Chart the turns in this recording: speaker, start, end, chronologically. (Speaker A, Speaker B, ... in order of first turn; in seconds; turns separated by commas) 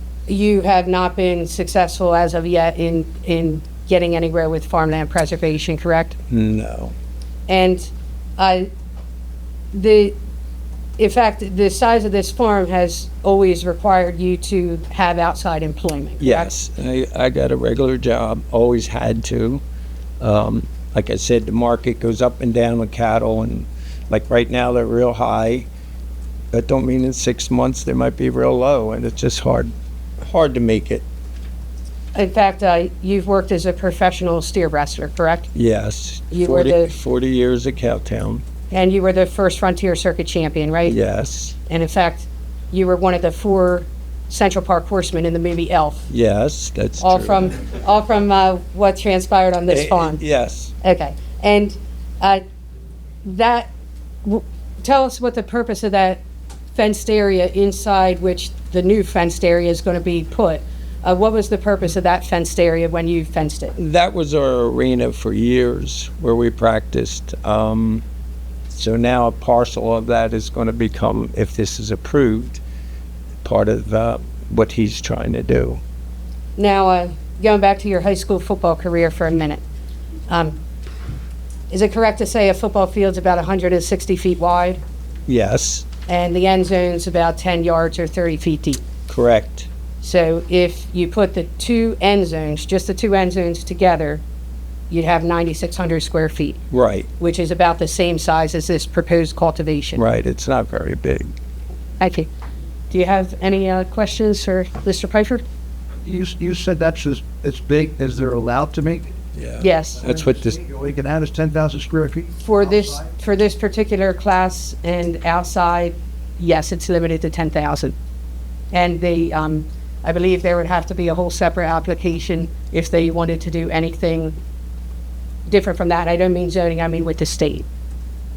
Speaker A: 0.3-6.2, Speaker B: 6.3-6.9, Speaker A: 7.5-8.7, Speaker A: 9.7-10.2, Speaker A: 11.0-16.5, Speaker B: 16.2-19.6, Speaker B: 20.2-25.7, Speaker B: 26.5-31.1, Speaker A: 32.1-35.5, Speaker B: 35.5-38.4, Speaker A: 36.3-36.9, Speaker A: 38.7-41.0, Speaker B: 40.9-41.6, Speaker A: 41.7-46.1, Speaker B: 46.1-47.5, Speaker A: 47.0-50.2, Speaker B: 49.7-50.7, Speaker A: 50.8-52.4, Speaker A: 53.2-53.7, Speaker A: 54.2-56.2, Speaker A: 56.8-63.8, Speaker B: 63.8-68.0, Speaker B: 68.7-72.6, Speaker B: 73.4-75.8, Speaker A: 76.6-79.6, Speaker A: 80.3-80.6, Speaker A: 81.7-84.8, Speaker B: 85.3-85.9, Speaker A: 86.1-88.8, Speaker B: 89.1-89.7, Speaker A: 90.0-94.2, Speaker A: 94.9-96.6, Speaker B: 96.7-97.1, Speaker A: 97.2-100.0, Speaker B: 100.0-101.3, Speaker A: 102.0-102.3, Speaker A: 102.9-105.5, Speaker C: 106.0-109.1, Speaker B: 109.4-110.6, Speaker A: 109.6-110.0, Speaker C: 110.0-113.1, Speaker A: 112.4-118.0, Speaker A: 118.7-124.4, Speaker A: 125.5-127.7